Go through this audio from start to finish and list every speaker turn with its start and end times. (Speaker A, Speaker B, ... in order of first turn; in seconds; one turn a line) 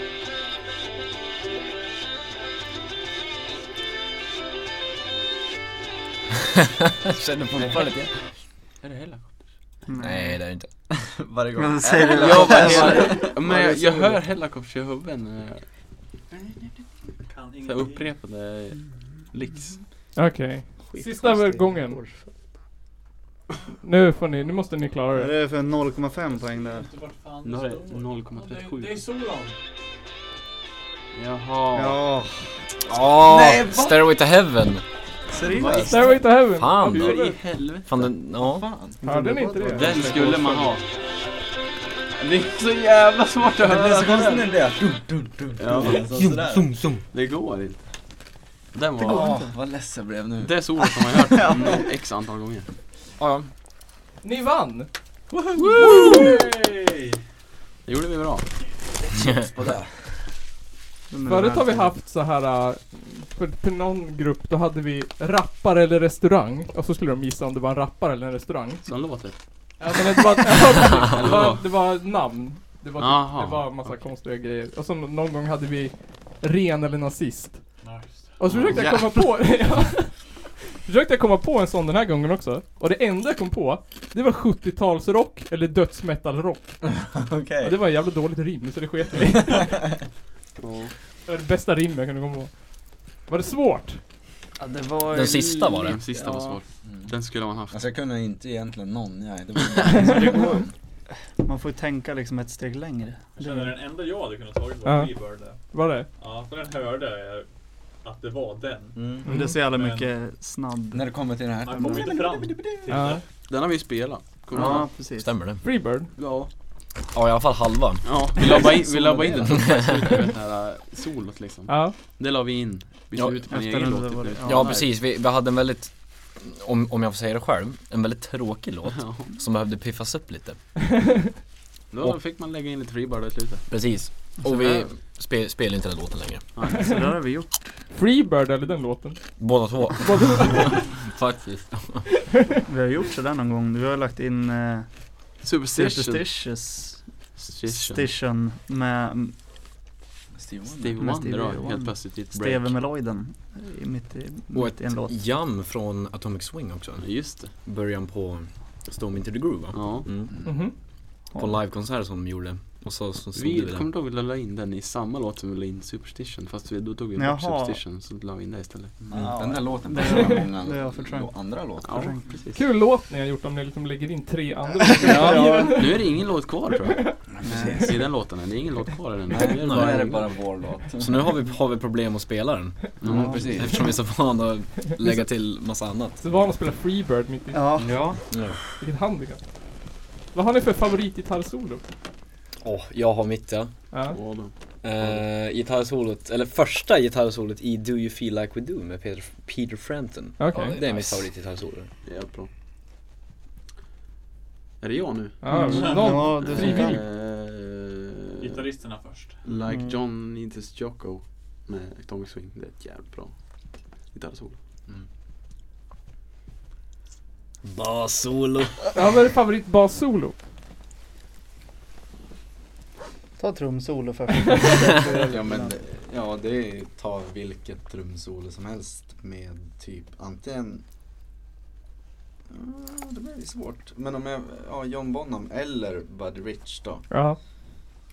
Speaker A: 7.2-7.9
Speaker B: 7.5-8.1
Speaker B: 8.8-9.4
Speaker C: 9.9-10.4
Speaker A: 10.0-10.7
Speaker D: 10.9-14.2
Speaker C: 11.6-13.2
Speaker B: 12.1-15.6
Speaker E: 17.3-18.1
Speaker B: 17.6-19.8
Speaker F: 20.1-22.0
Speaker C: 20.9-22.3
Speaker F: 23.8-25.3
Speaker C: 25.1-26.9
Speaker E: 26.3-29.6
Speaker B: 27.4-29.0
Speaker B: 31.1-32.0
Speaker C: 31.7-32.5
Speaker A: 32.9-34.8
Speaker D: 33.2-34.0
Speaker D: 35.3-36.1
Speaker C: 35.4-36.0
Speaker B: 35.5-36.2
Speaker F: 35.8-37.4
Speaker A: 36.5-37.3
Speaker B: 36.8-37.9
Speaker A: 37.8-38.7
Speaker D: 38.4-39.0
Speaker C: 39.0-40.0
Speaker F: 39.0-40.7
Speaker B: 39.8-40.8
Speaker B: 42.2-44.5
Speaker D: 43.6-46.7
Speaker B: 45.6-46.3
Speaker A: 45.9-47.0
Speaker B: 47.1-47.8
Speaker B: 48.7-49.3
Speaker D: 49.0-50.6
Speaker C: 49.1-49.5
Speaker B: 50.4-52.7
Speaker C: 51.3-51.8
Speaker A: 53.2-53.5
Speaker F: 54.2-54.9
Speaker D: 55.3-56.4
Speaker E: 55.8-57.2
Speaker B: 57.8-58.5
Speaker D: 59.1-60.0
Speaker C: 61.1-61.9
Speaker F: 61.2-68.8
Speaker B: 68.8-69.4
Speaker F: 69.8-77.6
Speaker B: 70.9-71.6
Speaker B: 73.0-74.0
Speaker E: 77.8-78.4
Speaker F: 78.4-86.8
Speaker B: 78.5-78.9
Speaker D: 78.7-79.0
Speaker C: 78.7-79.0
Speaker D: 86.9-87.8
Speaker F: 87.6-89.9
Speaker F: 91.3-92.5
Speaker F: 93.2-94.0
Speaker C: 94.6-96.5
Speaker A: 95.1-96.0
Speaker B: 95.8-97.9
Speaker D: 96.8-97.1
Speaker D: 97.7-100.7
Speaker F: 99.9-100.6
Speaker C: 100.1-100.4
Speaker C: 101.4-103.7
Speaker E: 103.3-107.5
Speaker F: 104.8-106.1
Speaker E: 108.0-110.1
Speaker D: 109.0-109.3
Speaker F: 109.2-109.6
Speaker C: 109.2-111.1
Speaker D: 110.9-112.8
Speaker E: 111.6-113.2
Speaker C: 111.7-112.0
Speaker F: 112.9-113.2
Speaker B: 113.5-114.9
Speaker C: 114.5-115.3
Speaker A: 115.1-115.6
Speaker F: 115.6-116.1
Speaker B: 116.2-116.5
Speaker A: 117.1-120.1
Speaker B: 118.0-124.9
Speaker F: 121.7-122.0
Speaker A: 123.1-123.4
Speaker C: 123.5-124.8
Speaker A: 124.4-130.6
Speaker B: 129.0-129.2
Speaker F: 130.9-131.2
Speaker B: 131.9-133.7
Speaker A: 133.7-136.4
Speaker C: 134.4-134.8
Speaker B: 136.6-136.8
Speaker C: 136.6-137.7
Speaker F: 137.9-139.2
Speaker A: 139.4-142.1
Speaker F: 140.0-140.8
Speaker C: 142.7-144.9
Speaker B: 145.4-146.3
Speaker C: 145.7-147.0
Speaker B: 147.4-148.1
Speaker C: 147.7-149.3
Speaker D: 150.3-151.0
Speaker B: 150.7-152.7
Speaker C: 151.0-155.1
Speaker A: 154.5-160.3
Speaker B: 157.0-157.5
Speaker B: 159.7-160.1
Speaker F: 160.4-160.7
Speaker C: 161.3-161.6
Speaker A: 161.4-163.8
Speaker B: 163.3-169.0
Speaker C: 167.2-167.8
Speaker D: 169.0-172.1
Speaker C: 169.1-172.5
Speaker F: 170.0-170.3
Speaker B: 171.8-172.6
Speaker F: 172.5-176.1
Speaker C: 174.8-175.9
Speaker B: 175.7-177.1
Speaker F: 176.8-177.2
Speaker D: 177.3-178.0
Speaker C: 177.4-177.9
Speaker B: 177.8-180.3
Speaker D: 179.3-181.3
Speaker A: 179.5-180.1
Speaker A: 181.0-186.2
Speaker D: 183.0-183.9
Speaker B: 183.0-183.5
Speaker C: 183.1-183.5
Speaker F: 186.2-187.8
Speaker C: 187.5-187.9
Speaker D: 187.8-188.2
Speaker A: 188.2-188.6
Speaker F: 188.8-189.4
Speaker F: 190.3-191.8
Speaker A: 192.6-193.7
Speaker F: 193.9-194.2
Speaker B: 194.1-194.5
Speaker A: 194.8-201.9
Speaker F: 200.4-200.8
Speaker B: 202.0-202.5
Speaker B: 204.8-205.4
Speaker F: 205.4-207.0
Speaker C: 205.5-207.0
Speaker E: 205.7-206.1
Speaker B: 206.3-208.6
Speaker E: 208.4-209.4
Speaker B: 209.4-213.3
Speaker C: 209.7-210.0
Speaker B: 214.1-214.6
Speaker A: 217.6-218.8
Speaker F: 218.9-220.3
Speaker C: 223.4-225.8
Speaker D: 225.1-230.8
Speaker D: 232.5-237.1
Speaker F: 237.1-237.4